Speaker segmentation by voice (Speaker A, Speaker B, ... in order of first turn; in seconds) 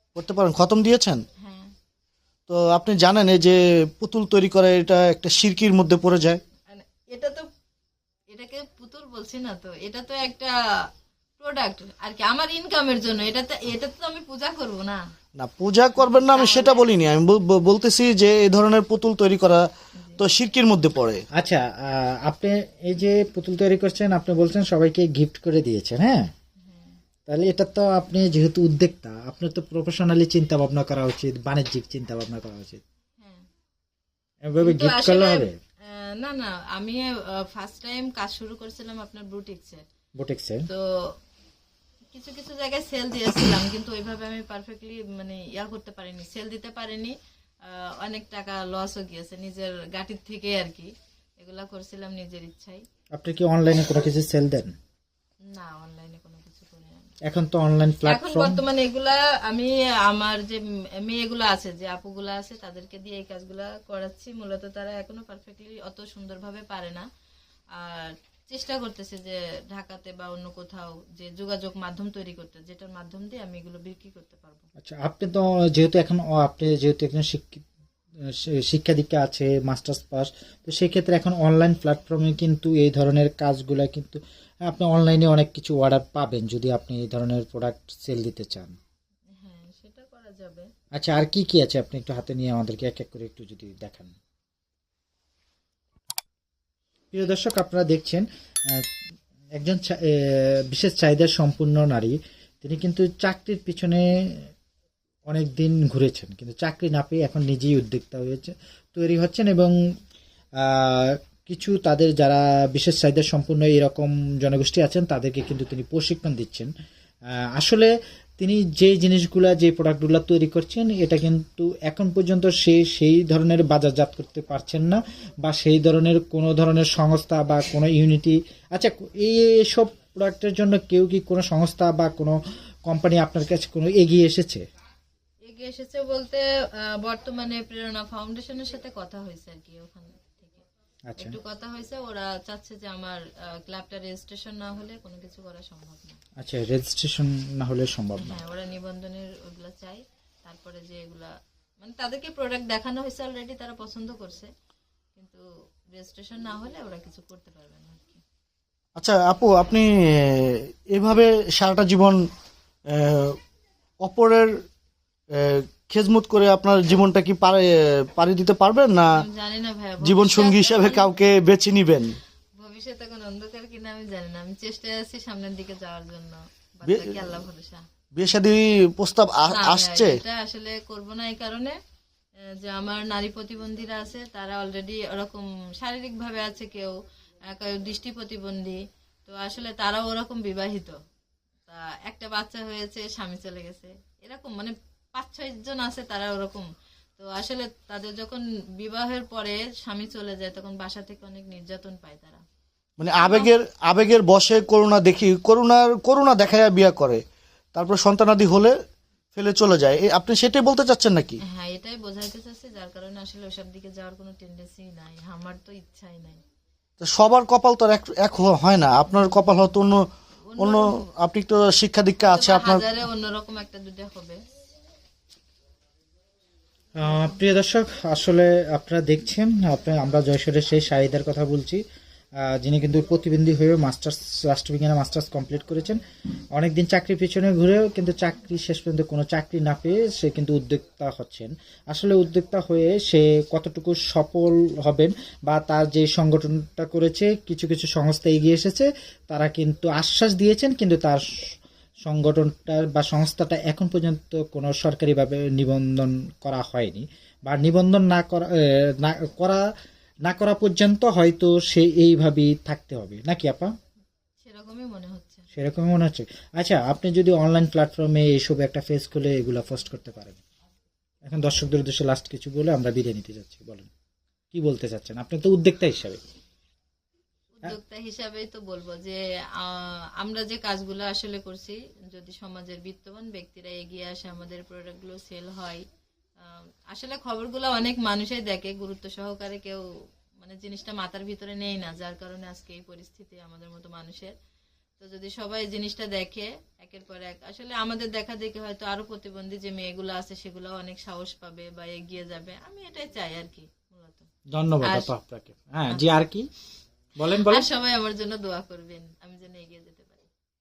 Speaker A: 0.1-1.2, 2.5-6.4, 15.4-19.7, 20.2-21.2, 159.0-162.2, 162.9-163.4, 164.0-164.5, 165.3-169.1, 170.0-172.1, 176.8-177.1, 178.2-180.2, 203.0-207.2, 207.8-208.8, 209.3-211.4, 217.0-220.1, 220.6-222.8
Speaker B: 1.4-1.7, 6.7-7.5, 8.3-10.5, 11.4-15.0, 16.0-16.9, 20.0-20.2, 26.6-27.0, 33.2-33.5, 34.6-39.8, 40.7-41.1, 42.1-52.8, 55.5-57.1, 58.0-67.1, 67.7-74.7, 89.3-90.7, 135.4-140.6, 141.2-146.2, 148.2-154.5, 155.2-158.2, 169.2-171.1, 172.6-177.8, 179.5-181.8, 182.6-191.0, 191.7-196.7, 197.2-202.4, 203.2-203.5, 211.5-216.4, 220.5-221.1, 222.2-224.4, 264.4-265.5, 277.6-285.8, 286.4-289.9, 290.4-294.3, 295.0-304.3, 304.8-305.1, 307.3-310.3
Speaker C: 21.3-26.3, 27.3-32.8, 34.4-35.5, 40.2-40.7, 53.1-54.8, 57.3-58.6, 74.8-77.6, 78.2-88.8, 90.9-94.1, 97.1-98.9, 99.5-104.5, 105.3-109.7, 110.6-116.7, 117.3-134.6, 141.1-141.4, 146.4-148.4, 226.9-231.8, 232.4-251.2, 252.1-259.7, 260.2-263.7, 265.6-270.4, 271.2-273.9, 274.5-276.2, 304.5-306.5, 307.2-307.7